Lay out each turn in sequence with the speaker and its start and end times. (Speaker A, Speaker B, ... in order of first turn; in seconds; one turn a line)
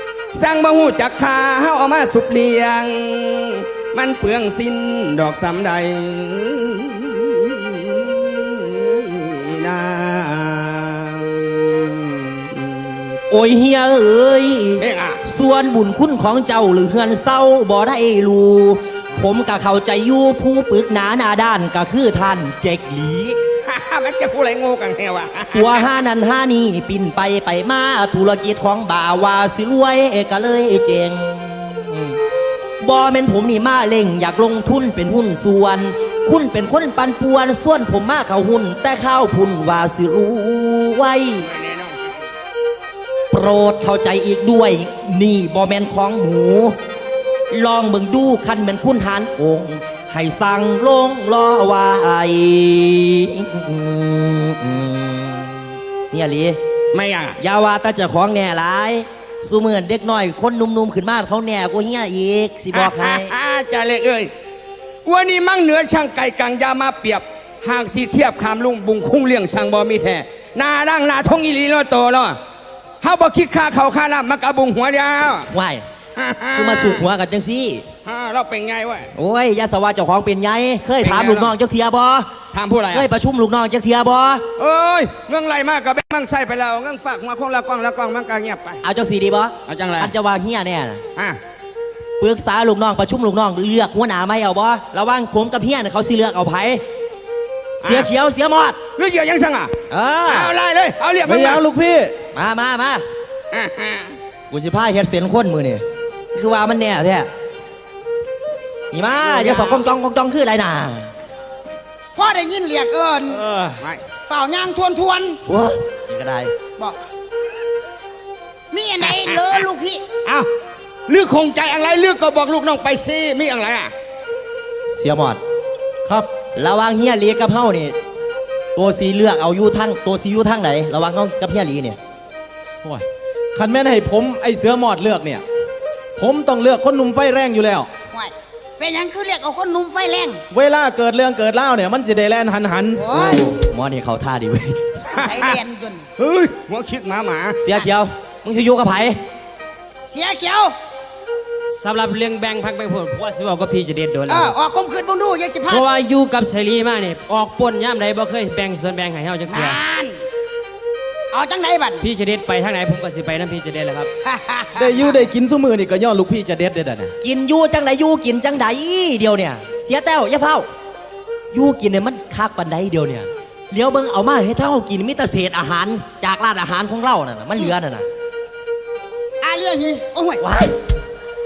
Speaker A: 0.3-13.1
Speaker B: 13.3-23.4
Speaker A: 14.8-15.2
Speaker A: 23.6-25.9
Speaker B: 25.5-32.2
Speaker B: 32.8-41.5
Speaker A: 41.4-42.2
Speaker B: 43.3-46.7
Speaker B: 47.5-56.6
Speaker A: 56.9-57.4
Speaker B: 57.4-63.3
Speaker A: 62.7-64.3
Speaker A: 65.0-72.4
Speaker A: 73.0-75.5
Speaker B: 75.5-75.8
Speaker A: 76.2-77.0
Speaker B: 76.5-77.8
Speaker A: 78.0-79.1
Speaker B: 79.1-82.3
Speaker A: 81.0-81.5
Speaker A: 82.5-83.1
Speaker B: 82.9-84.4
Speaker A: 84.6-88.8
Speaker B: 88.8-91.0
Speaker A: 89.7-90.1
Speaker B: 92.2-96.8
Speaker B: 97.8-98.8
Speaker A: 98.9-99.7
Speaker B: 99.9-100.5
Speaker A: 100.3-101.6
Speaker C: 101.2-102.1
Speaker B: 102.3-103.0
Speaker A: 103.5-104.2
Speaker B: 104.5-105.8
Speaker B: 106.3-107.3
Speaker B: 108.9-111.1
Speaker D: 109.5-109.7
Speaker D: 112.2-113.5
Speaker C: 113.5-113.8
Speaker D: 114.3-115.4
Speaker B: 115.5-116.5
Speaker D: 118.7-120.0
Speaker A: 119.0-119.6
Speaker A: 121.1-123.9
Speaker B: 124.9-125.4
Speaker B: 126.5-128.0
Speaker B: 128.7-132.0
Speaker C: 132.8-135.4
Speaker C: 136.2-137.9
Speaker D: 138.1-140.4
Speaker C: 140.5-143.6
Speaker D: 142.9-143.5
Speaker B: 143.6-144.8
Speaker A: 145.1-145.6
Speaker D: 145.1-146.1
Speaker A: 146.2-147.6
Speaker B: 147.6-149.2
Speaker D: 150.1-150.7
Speaker E: 151.7-154.5
Speaker D: 154.3-155.8
Speaker E: 155.7-159.8
Speaker D: 159.5-160.2
Speaker D: 161.3-162.0
Speaker E: 162.0-164.1
Speaker D: 164.2-165.2
Speaker C: 164.8-167.1
Speaker B: 167.2-170.7
Speaker B: 171.5-178.1
Speaker D: 179.4-180.4
Speaker B: 180.4-180.7